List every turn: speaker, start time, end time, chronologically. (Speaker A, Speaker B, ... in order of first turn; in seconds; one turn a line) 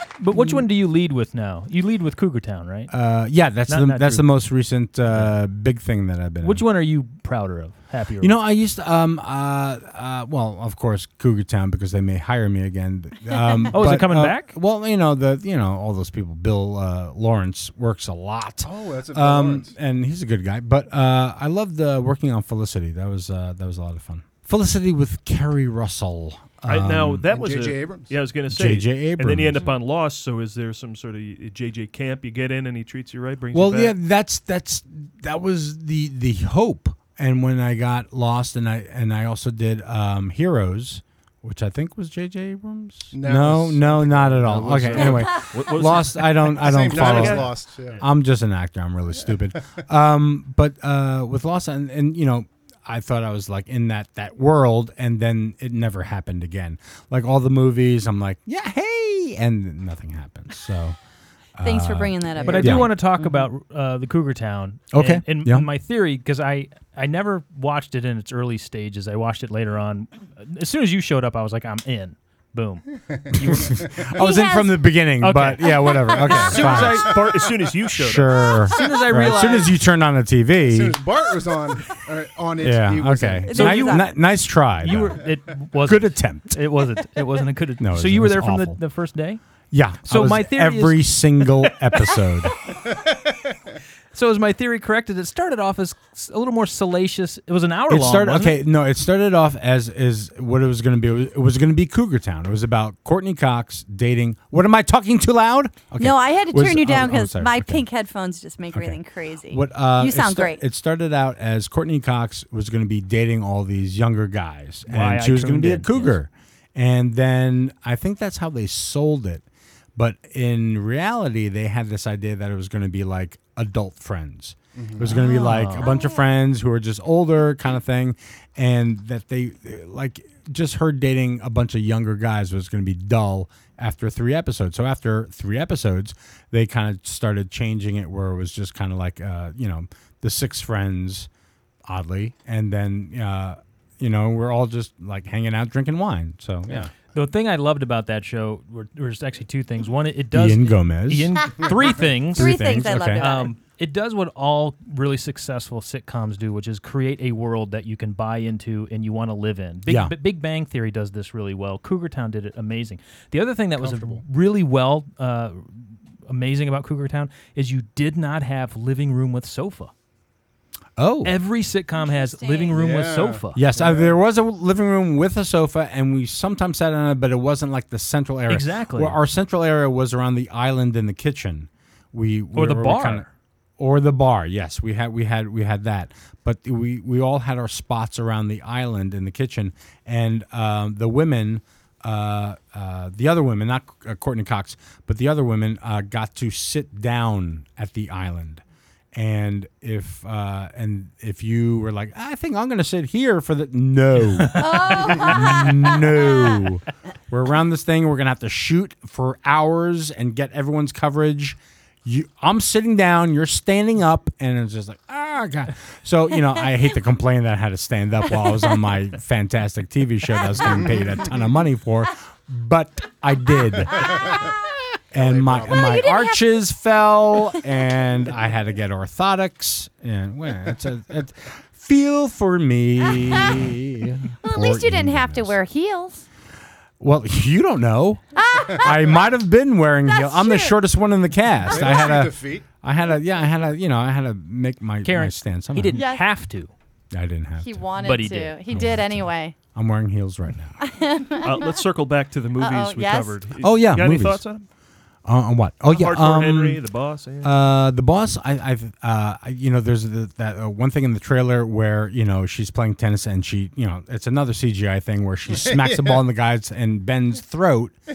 Speaker A: 0.2-2.9
Speaker B: 0.3-0.7
Speaker B: 2.9-6.7
Speaker A: 3.7-4.3
Speaker A: 5.1-5.3
Speaker A: 6.4-8.4
Speaker B: 8.2-27.3
Speaker A: 13.7-14.5
Speaker C: 18.6-19.7
Speaker D: 26.7-34.0
Speaker C: 27.3-28.2
Speaker B: 28.5-29.7
Speaker B: 33.5-61.0
Speaker C: 43.1-45.3
Speaker D: 44.5-47.5
Speaker C: 46.6-48.0
Speaker B: 61.6-62.9
Speaker E: 61.6-63.5
Speaker A: 62.4-73.8
Speaker B: 64.9-65.7
Speaker C: 73.1-74.0
Speaker B: 73.5-77.3
Speaker E: 74.2-74.9
Speaker A: 75.2-77.0
Speaker E: 75.8-76.1
Speaker D: 76.6-78.5
Speaker B: 77.9-81.0
Speaker A: 78.7-79.7
Speaker C: 80.6-83.5
Speaker B: 82.6-85.3
Speaker E: 83.5-84.1
Speaker A: 83.5-84.1
Speaker A: 84.8-89.4
Speaker B: 85.8-86.6
Speaker B: 87.8-88.8
Speaker B: 89.7-92.6
Speaker A: 90.0-91.1
Speaker A: 94.1-98.6
Speaker B: 97.9-107.8
Speaker E: 106.0-110.6
Speaker B: 108.7-109.0
Speaker B: 109.5-119.4
Speaker A: 114.9-116.2
Speaker B: 120.0-141.3
Speaker C: 124.8-125.1
Speaker A: 125.1-125.9
Speaker E: 125.8-126.3
Speaker B: 141.9-146.9
Speaker A: 146.7-169.9
Speaker B: 150.3-153.3
Speaker E: 152.3-153.5
Speaker B: 159.9-160.2
Speaker C: 163.8-164.2
Speaker B: 171.0-171.4
Speaker A: 171.2-173.6
Speaker E: 172.0-172.8
Speaker C: 172.7-174.2
Speaker B: 173.6-183.3
Speaker A: 178.5-179.2
Speaker A: 182.6-183.3
Speaker B: 183.8-198.6
Speaker B: 199.1-224.3
Speaker A: 204.4-204.7
Speaker E: 204.6-206.5
Speaker E: 220.5-221.2
Speaker C: 220.6-221.3
Speaker C: 224.0-224.5
Speaker E: 224.1-224.4
Speaker B: 225.1-235.6
Speaker C: 225.1-226.0
Speaker E: 225.7-226.6
Speaker E: 234.4-236.2
Speaker B: 237.0-246.1
Speaker E: 238.4-239.3
Speaker E: 240.1-240.8
Speaker C: 241.7-242.7
Speaker A: 245.0-246.7
Speaker E: 246.0-246.2
Speaker B: 247.1-250.8
Speaker E: 247.6-249.6
Speaker A: 248.0-248.6
Speaker E: 250.8-251.8
Speaker D: 251.4-254.7
Speaker E: 252.6-253.4
Speaker B: 253.6-254.4
Speaker B: 255.2-256.8
Speaker D: 255.9-257.5
Speaker B: 257.4-267.9
Speaker C: 265.5-266.2